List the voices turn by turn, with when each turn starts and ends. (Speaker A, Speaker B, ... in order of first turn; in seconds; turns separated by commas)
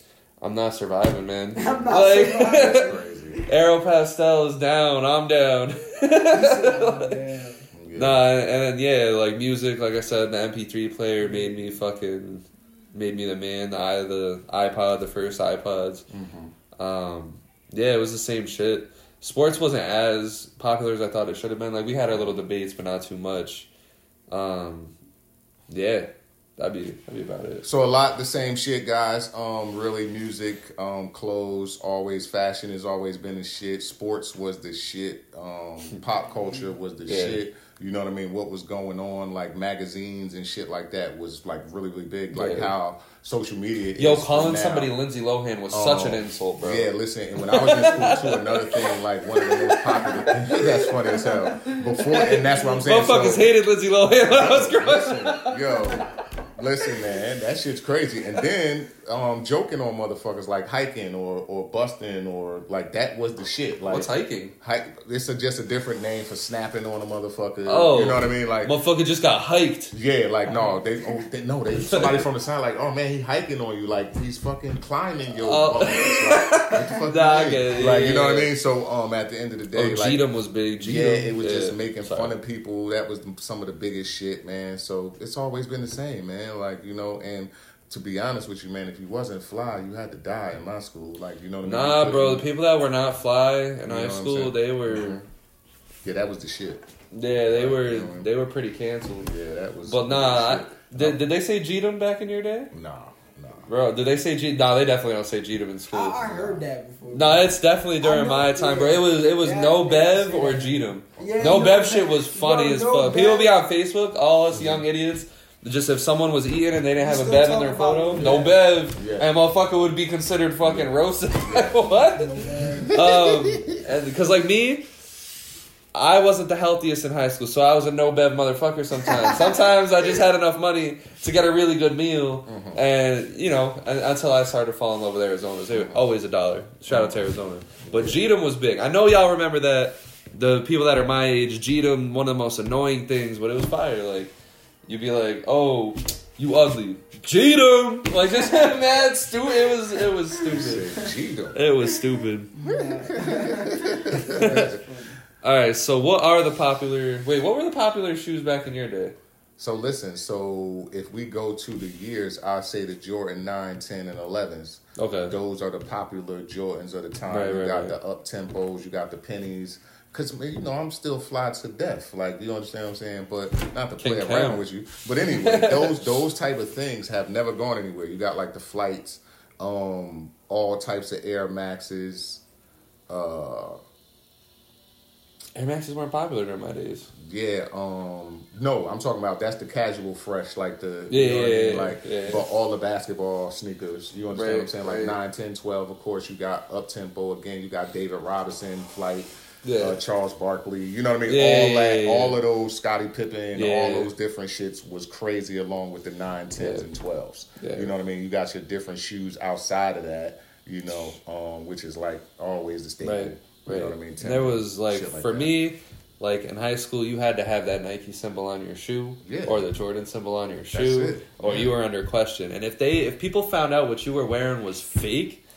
Speaker A: 0.4-2.9, Speaker B: 1.6-3.4, Speaker C: 2.6-3.4, Speaker A: 3.5-7.1, Speaker B: 6.3-7.7, Speaker C: 7.7-8.2, Speaker A: 7.9-16.0, Speaker B: 11.2-11.8, Speaker C: 16.1-16.5, Speaker A: 16.8-23.7, Speaker C: 22.1-22.4, Speaker A: 24.3-24.9, Speaker A: 25.7-26.1, Speaker A: 26.6-27.6, Speaker C: 27.6-44.9, Speaker B: 36.1-36.7, Speaker A: 37.0-37.4, Speaker A: 42.3-42.7, Speaker A: 44.0-50.2, Speaker C: 45.7-53.5, Speaker B: 50.2-53.3, Speaker A: 52.1-55.8, Speaker C: 54.2-68.7, Speaker A: 63.9-64.5, Speaker A: 67.7-69.9, Speaker C: 69.9-80.2, Speaker A: 71.7-72.2, Speaker A: 75.4-78.5, Speaker A: 79.7-82.3, Speaker C: 80.8-92.4, Speaker A: 91.6-95.2, Speaker C: 93.9-95.2, Speaker C: 96.0-96.9, Speaker A: 97.1-99.3, Speaker C: 97.5-98.3, Speaker C: 99.2-101.2, Speaker A: 99.8-102.7, Speaker C: 102.7-103.7, Speaker A: 103.7-106.3, Speaker B: 105.9-113.5, Speaker C: 106.2-106.6, Speaker A: 107.1-122.4, Speaker C: 114.5-114.8, Speaker B: 117.0-118.6, Speaker C: 118.1-118.4, Speaker C: 118.9-119.3, Speaker C: 120.6-121.8, Speaker B: 122.1-123.0, Speaker C: 122.8-123.8, Speaker A: 122.9-124.8, Speaker A: 125.9-144.3, Speaker C: 132.4-132.8, Speaker C: 135.7-136.0, Speaker C: 136.9-138.2, Speaker A: 144.9-150.9, Speaker C: 150.4-151.6, Speaker A: 151.5-152.5, Speaker B: 152.5-155.2, Speaker C: 152.6-154.8, Speaker A: 154.3-154.7, Speaker A: 155.4-159.1, Speaker C: 159.6-182.4, Speaker A: 165.0-165.3, Speaker A: 167.3-167.9, Speaker A: 174.0-174.6, Speaker A: 175.2-176.0, Speaker C: 183.1-183.8, Speaker A: 185.5-187.1, Speaker C: 187.2-215.5, Speaker A: 191.1-192.4, Speaker A: 194.3-195.2, Speaker A: 199.6-200.0, Speaker A: 201.3-202.3, Speaker A: 203.5-204.1, Speaker A: 206.6-206.8, Speaker A: 207.6-207.9, Speaker A: 213.0-225.4, Speaker C: 219.2-219.6, Speaker C: 220.7-221.7